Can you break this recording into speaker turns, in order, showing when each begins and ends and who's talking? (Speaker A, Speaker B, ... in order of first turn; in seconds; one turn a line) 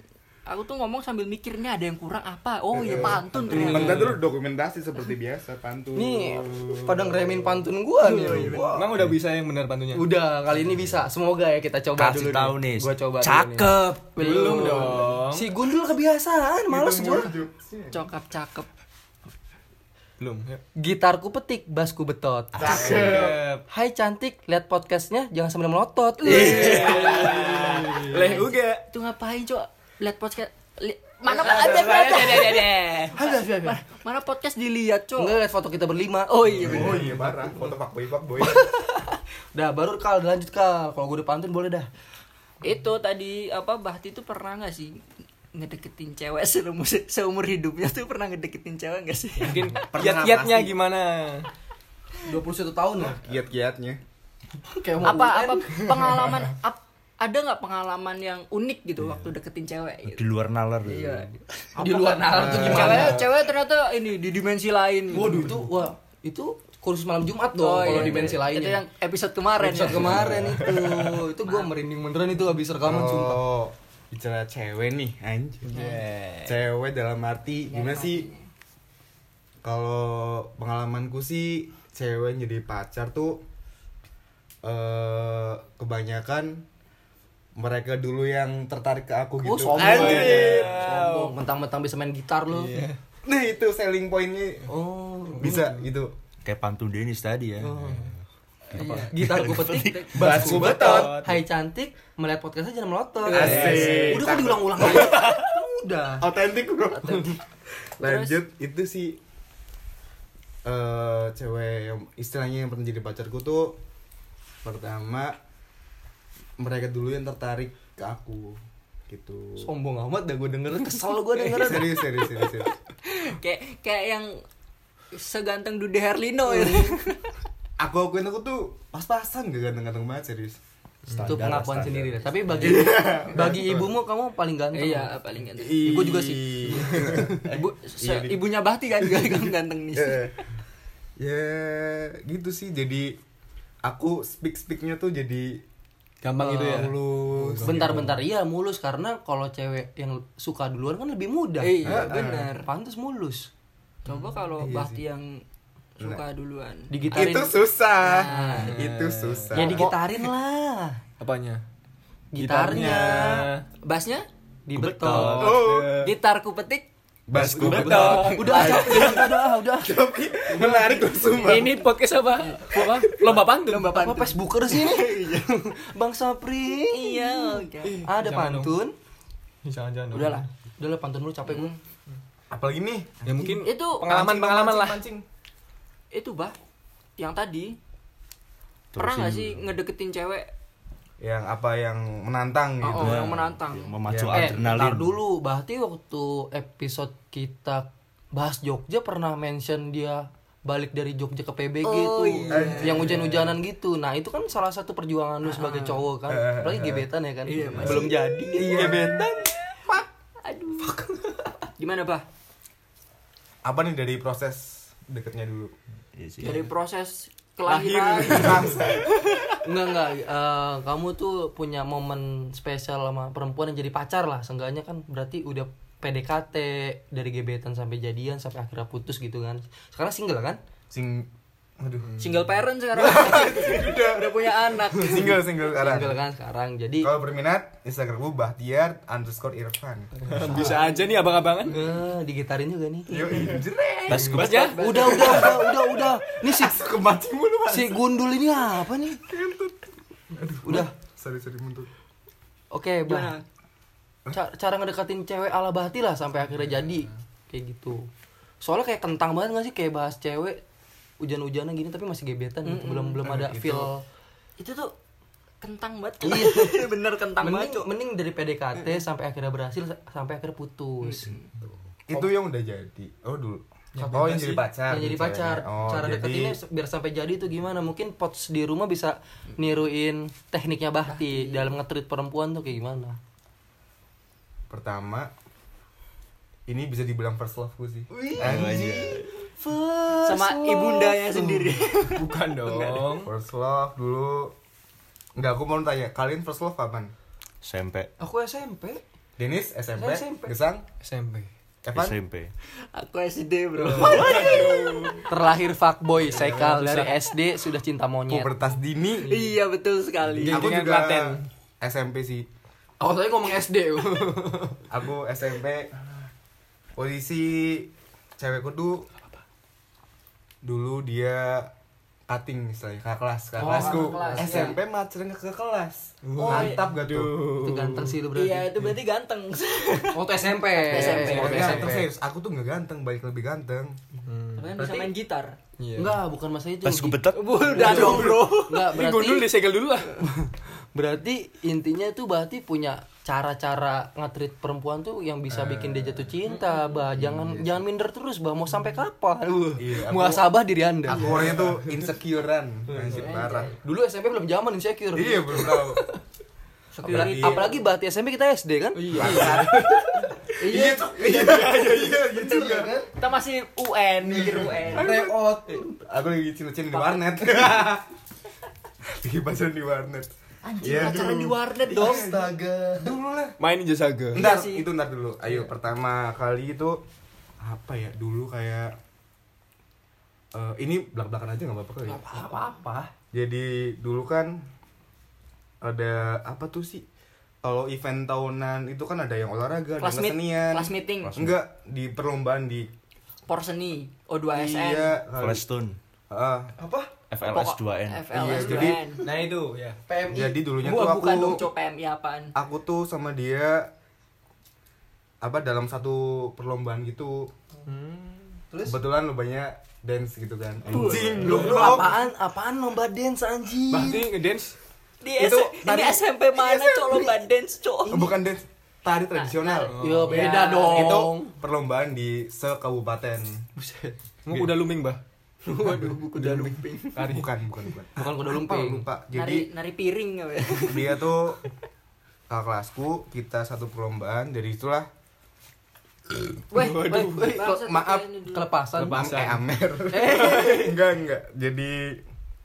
Speaker A: 0.5-4.1
Speaker B: 2.7-7.5
Speaker C: 2.9-4.0
Speaker D: 3.5-4.2
Speaker C: 5.9-8.8
Speaker A: 8.0-8.8
Speaker E: 8.3-9.2
Speaker D: 8.7-10.1
Speaker C: 9.9-17.3
Speaker E: 10.6-10.9
Speaker E: 12.0-14.0
Speaker D: 14.1-15.5
Speaker B: 16.7-18.1
Speaker A: 17.9-18.7
Speaker D: 20.2-20.6
Speaker C: 20.8-27.6
Speaker E: 22.6-23.0
Speaker B: 22.6-23.4
Speaker D: 22.6-23.6
Speaker E: 26.3-27.5
Speaker D: 26.3-28.8
Speaker A: 26.3-35.4
Speaker B: 31.3-32.0
Speaker C: 31.3-33.8
Speaker C: 35.2-37.1
Speaker A: 36.3-37.1
Speaker D: 36.6-37.0
Speaker B: 36.6-38.6
Speaker C: 38.4-41.9
Speaker A: 42.6-45.0
Speaker A: 45.5-49.7
Speaker D: 49.4-51.5
Speaker B: 49.8-50.8
Speaker C: 52.2-53.2
Speaker B: 53.0-54.0
Speaker C: 54.7-56.0
Speaker A: 55.0-60.2
Speaker E: 59.0-59.3
Speaker E: 60.1-61.4
Speaker A: 60.8-61.4
Speaker C: 61.8-63.2
Speaker B: 61.9-63.3
Speaker A: 62.3-65.5
Speaker C: 65.1-68.8
Speaker A: 67.6-70.5
Speaker E: 67.8-68.3
Speaker C: 69.6-73.4
Speaker B: 69.9-70.7
Speaker D: 70.6-70.9
Speaker A: 71.4-71.7
Speaker B: 72.8-75.8
Speaker D: 75.6-76.5
Speaker A: 75.7-76.0
Speaker B: 76.4-78.3
Speaker A: 77.7-78.5
Speaker B: 79.6-83.4
Speaker B: 84.6-86.7
Speaker B: 87.5-90.8
Speaker C: 89.4-92.8
Speaker D: 89.7-91.3
Speaker D: 92.5-93.0
Speaker B: 93.2-94.7
Speaker C: 94.7-95.6
Speaker D: 95.3-95.8
Speaker B: 95.4-96.1
Speaker E: 96.4-100.7
Speaker C: 97.6-98.1
Speaker C: 98.7-106.3
Speaker A: 98.8-100.3
Speaker B: 100.1-101.3
Speaker D: 100.3-101.4
Speaker A: 103.2-104.0
Speaker B: 103.3-105.2
Speaker D: 103.3-104.2
Speaker B: 106.2-107.3
Speaker B: 108.0-109.2
Speaker A: 108.0-108.4
Speaker B: 110.6-113.8
Speaker B: 114.6-115.4
Speaker B: 116.6-119.7
Speaker C: 119.6-122.0
Speaker A: 121.4-121.9
Speaker B: 121.5-122.7
Speaker A: 123.0-124.4
Speaker A: 125.1-127.3
Speaker C: 126.5-127.0
Speaker B: 127.8-133.9
Speaker C: 131.1-135.1
Speaker A: 134.7-136.0
Speaker B: 135.6-138.4
Speaker C: 135.7-137.2
Speaker A: 137.2-140.4
Speaker B: 139.9-140.4
Speaker B: 141.2-143.2
Speaker B: 143.8-145.6
Speaker D: 146.2-148.1
Speaker C: 146.4-147.0
Speaker B: 146.7-148.2
Speaker C: 147.6-152.0
Speaker A: 151.6-152.7
Speaker B: 151.8-152.5
Speaker C: 152.6-153.5
Speaker A: 154.0-155.4
Speaker B: 154.6-155.0
Speaker A: 156.0-156.9
Speaker C: 156.9-157.6
Speaker B: 157.1-160.0
Speaker A: 158.0-158.9
Speaker C: 158.3-158.8
Speaker D: 158.5-159.9
Speaker C: 159.5-161.0
Speaker D: 161.2-161.6
Speaker C: 162.3-163.4
Speaker D: 162.4-163.7
Speaker B: 162.6-163.3
Speaker A: 162.8-164.3
Speaker C: 164.7-165.6
Speaker E: 164.7-165.6
Speaker D: 165.1-166.1
Speaker B: 165.2-166.1
Speaker A: 165.9-166.9
Speaker B: 167.3-171.8
Speaker D: 167.3-169.2
Speaker E: 167.4-168.3
Speaker C: 167.7-169.9
Speaker A: 168.3-169.3
Speaker D: 170.5-170.8
Speaker D: 171.4-174.0
Speaker A: 172.4-175.0
Speaker C: 173.8-178.9
Speaker A: 176.9-178.0
Speaker D: 177.8-178.8
Speaker D: 179.6-180.5
Speaker A: 180.1-180.5
Speaker C: 180.8-181.7
Speaker A: 181.5-181.8
Speaker B: 182.5-185.2
Speaker D: 183.2-185.1
Speaker A: 183.6-184.1
Speaker A: 186.1-186.5
Speaker A: 187.2-187.8
Speaker E: 188.9-189.7
Speaker A: 188.9-190.5
Speaker B: 191.2-193.3
Speaker A: 192.8-193.9
Speaker E: 193.0-195.2
Speaker B: 194.0-194.7
Speaker C: 194.3-209.4
Speaker A: 201.8-203.2
Speaker B: 202.5-203.6
Speaker A: 205.4-206.0
Speaker B: 206.3-207.1
Speaker A: 207.5-208.4
Speaker B: 207.7-209.3
Speaker D: 208.6-209.2
Speaker A: 210.4-211.0
Speaker A: 211.8-212.2
Speaker B: 213.6-215.7
Speaker E: 216.2-216.7
Speaker A: 216.4-219.4
Speaker B: 217.7-219.1
Speaker C: 219.6-230.6
Speaker B: 230.9-232.1
Speaker D: 232.1-232.4
Speaker A: 232.2-235.3
Speaker B: 232.9-236.2
Speaker C: 235.6-237.1
Speaker B: 237.0-240.7
Speaker D: 240.2-241.9
Speaker C: 240.3-240.8
Speaker C: 241.7-243.6
Speaker B: 243.1-248.2
Speaker A: 244.1-245.6
Speaker E: 244.1-244.8
Speaker D: 244.3-245.2
Speaker C: 244.8-246.8
Speaker C: 247.7-249.2
Speaker D: 250.3-250.8
Speaker C: 250.6-250.9
Speaker B: 250.7-251.9
Speaker C: 252.7-253.3
Speaker A: 253.1-253.4
Speaker C: 254.3-258.1
Speaker C: 258.6-260.6
Speaker C: 261.2-264.0
Speaker A: 262.6-263.2
Speaker B: 263.2-263.9
Speaker A: 264.6-264.9
Speaker A: 265.6-267.9
Speaker C: 266.2-271.3
Speaker A: 271.0-271.5
Speaker B: 272.1-276.6
Speaker D: 273.9-274.4
Speaker C: 274.0-283.2
Speaker A: 281.1-281.7
Speaker B: 284.7-285.3
Speaker B: 286.7-289.2
Speaker D: 288.1-288.8
Speaker C: 288.2-291.5
Speaker E: 288.4-289.3
Speaker A: 290.2-293.1
Speaker D: 291.9-293.3
Speaker B: 293.0-294.5
Speaker B: 295.4-297.1
Speaker E: 297.6-298.1
Speaker C: 298.2-299.0
Speaker B: 299.4-300.9
Speaker C: 299.9-300.5
Speaker D: 301.0-301.5
Speaker B: 301.8-302.2
Speaker E: 301.9-302.5
Speaker A: 302.9-305.2
Speaker D: 303.8-305.3
Speaker C: 304.1-304.6
Speaker C: 305.2-308.5
Speaker D: 306.3-307.1
Speaker B: 308.3-309.3
Speaker D: 309.2-309.5
Speaker A: 309.3-310.6
Speaker D: 310.2-311.4
Speaker B: 310.5-312.5
Speaker C: 313.0-314.8
Speaker B: 314.9-316.1
Speaker B: 316.9-319.1
Speaker B: 320.6-321.7
Speaker B: 322.3-327.4
Speaker C: 323.6-324.7
Speaker A: 323.6-324.8
Speaker D: 326.2-328.2
Speaker A: 326.4-326.8
Speaker C: 327.6-328.7
Speaker A: 328.3-331.9
Speaker C: 330.1-332.1
Speaker D: 330.9-331.9
Speaker B: 331.3-334.0
Speaker D: 334.2-335.0
Speaker A: 334.6-335.6
Speaker C: 334.8-335.1
Speaker D: 335.8-336.2
Speaker C: 335.9-339.5
Speaker E: 336.8-338.1
Speaker A: 337.3-338.8
Speaker D: 337.6-340.2
Speaker C: 340.2-351.6
Speaker B: 345.5-346.4
Speaker A: 346.5-346.9
Speaker B: 347.2-347.8
Speaker B: 349.8-350.5
Speaker B: 351.1-353.7
Speaker D: 351.2-351.8
Speaker D: 352.9-353.3
Speaker A: 353.1-353.8
Speaker C: 353.8-356.0
Speaker B: 355.1-356.0
Speaker A: 356.9-357.8
Speaker B: 357.0-357.7
Speaker C: 357.1-359.9
Speaker D: 359.0-360.0
Speaker B: 359.1-360.0
Speaker A: 360.6-361.2
Speaker B: 360.6-363.1
Speaker C: 360.6-361.0
Speaker D: 361.4-361.9
Speaker A: 362.5-365.2
Speaker B: 364.2-365.1
Speaker C: 364.9-366.0
Speaker B: 366.0-368.1
Speaker A: 366.9-367.6
Speaker B: 369.1-373.6
Speaker A: 370.7-372.3
Speaker C: 372.0-373.0
Speaker D: 373.6-374.4
Speaker B: 374.3-377.0
Speaker A: 374.3-374.9
Speaker B: 377.6-378.9
Speaker B: 380.5-382.2
Speaker C: 382.1-383.1
Speaker B: 383.3-384.7
Speaker B: 385.8-387.0
Speaker B: 387.6-392.9
Speaker A: 390.0-391.3
Speaker E: 391.2-391.6
Speaker A: 393.5-395.2
Speaker B: 394.5-395.6
Speaker E: 395.4-396.0
Speaker B: 396.3-396.8
Speaker C: 396.8-397.1
Speaker E: 397.3-398.3
Speaker A: 397.5-399.2
Speaker B: 398.3-399.1
Speaker C: 398.5-398.9
Speaker D: 399.2-400.0
Speaker C: 400.1-400.6
Speaker B: 400.3-401.7
Speaker A: 400.7-402.5
Speaker B: 402.5-403.9
Speaker B: 405.4-407.5
Speaker D: 407.9-408.6
Speaker C: 408.7-409.0
Speaker B: 408.9-412.1
Speaker A: 410.9-412.1
Speaker D: 411.0-412.0
Speaker C: 411.4-414.3
Speaker D: 413.9-414.8
Speaker A: 415.2-418.3
Speaker B: 415.4-417.4
Speaker C: 418.1-418.3
Speaker B: 418.1-419.9
Speaker A: 419.3-421.2
Speaker D: 419.9-420.5
Speaker C: 420.0-421.5
Speaker B: 420.9-423.6
Speaker C: 423.8-424.1
Speaker D: 424.4-425.2
Speaker A: 425.6-427.3
Speaker D: 426.4-427.5
Speaker C: 426.4-426.7
Speaker B: 427.2-429.7
Speaker C: 428.1-429.1
Speaker A: 429.3-431.2
Speaker B: 430.8-431.6
Speaker B: 432.5-435.1
Speaker A: 436.7-438.7
Speaker D: 436.7-437.6
Speaker C: 436.8-437.8
Speaker B: 437.7-438.3
Speaker C: 438.5-439.6
Speaker D: 439.0-439.6
Speaker B: 439.0-442.2
Speaker C: 440.1-440.9